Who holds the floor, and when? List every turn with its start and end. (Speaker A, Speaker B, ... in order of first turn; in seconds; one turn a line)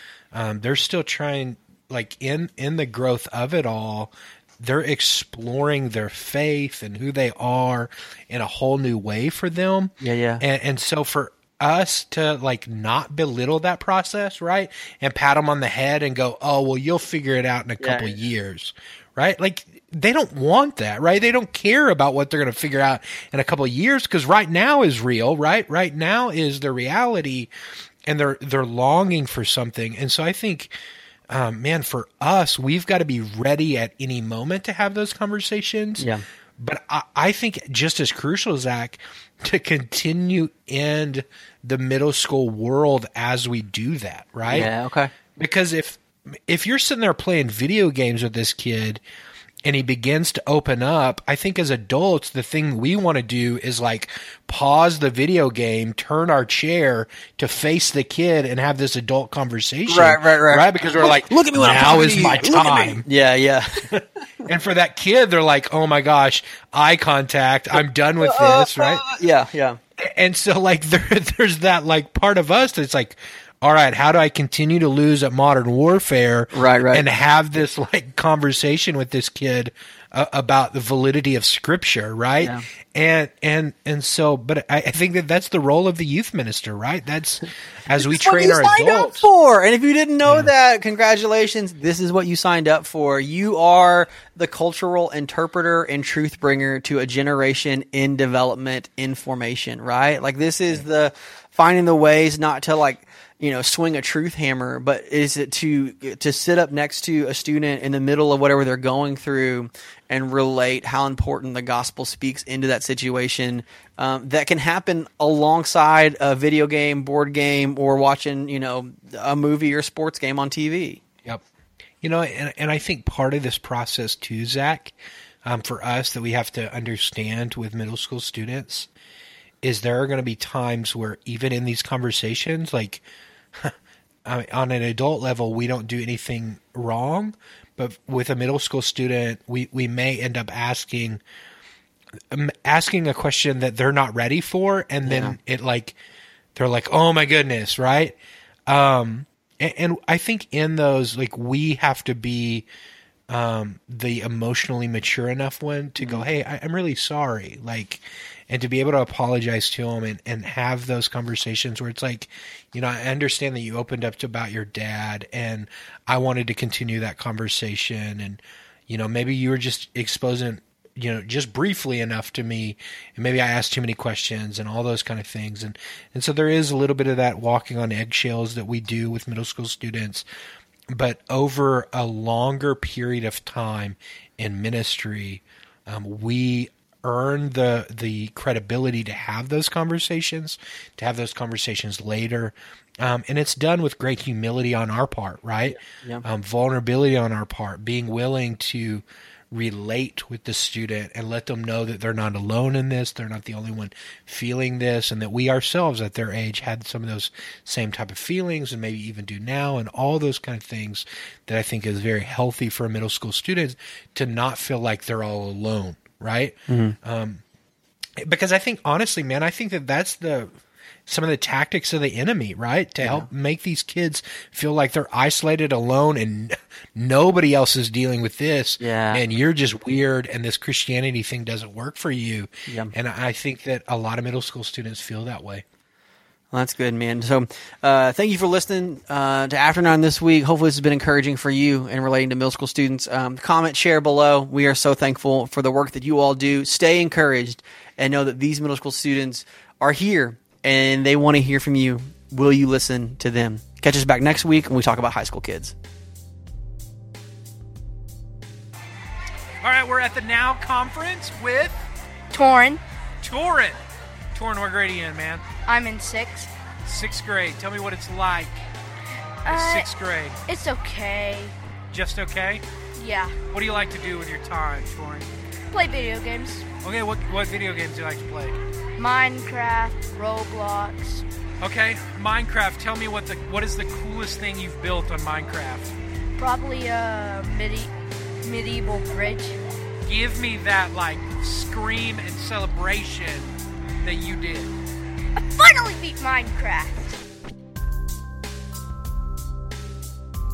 Speaker A: 0.3-27.5
Speaker B: 10.0-10.4
Speaker B: 17.8-18.1
Speaker A: 28.1-30.7
Speaker A: 31.3-44.7
Speaker B: 36.0-36.2
Speaker B: 44.5-45.1
Speaker A: 45.4-49.0
Speaker A: 49.6-63.0
Speaker B: 59.9-64.0
Speaker A: 63.9-69.0
Speaker B: 67.7-69.8
Speaker A: 70.0-89.3
Speaker B: 76.5-77.1
Speaker B: 88.0-121.0
Speaker A: 90.3-90.5
Speaker A: 122.0-128.9
Speaker A: 129.6-133.0
Speaker A: 133.6-141.2
Speaker A: 142.3-146.0
Speaker B: 145.1-145.4
Speaker A: 146.6-148.2
Speaker A: 148.7-152.7
Speaker A: 153.3-180.3
Speaker B: 156.0-156.3
Speaker A: 180.9-217.4
Speaker B: 195.7-196.3
Speaker B: 216.7-217.0
Speaker A: 218.2-220.5
Speaker A: 221.1-235.7
Speaker B: 223.0-223.3
Speaker B: 228.8-229.2
Speaker B: 232.7-232.9
Speaker B: 236.5-255.8
Speaker A: 259.7-261.7
Speaker C: 259.7-261.7
Speaker D: 262.3-262.8
Speaker C: 263.2-263.7
Speaker A: 263.2-263.7
Speaker A: 264.4-265.4
Speaker C: 264.4-265.4
Speaker D: 265.7-266.5
Speaker C: 266.9-268.5
Speaker A: 266.9-268.5
Speaker D: 269.4-269.9
Speaker C: 269.5-270.4
Speaker A: 269.5-270.3
Speaker D: 270.5-271.6
Speaker C: 271.9-272.6
Speaker A: 272.0-272.5
Speaker D: 273.0-273.4
Speaker C: 273.5-275.3
Speaker A: 273.6-274.4
Speaker D: 275.7-276.7
Speaker C: 276.8-278.5
Speaker A: 276.9-278.5
Speaker D: 279.0-281.3
Speaker C: 281.6-285.9
Speaker A: 281.6-283.8
Speaker A: 284.4-285.8
Speaker D: 286.4-287.9
Speaker D: 288.4-289.6
Speaker C: 290.1-293.5
Speaker C: 294.0-294.7
Speaker D: 295.4-297.2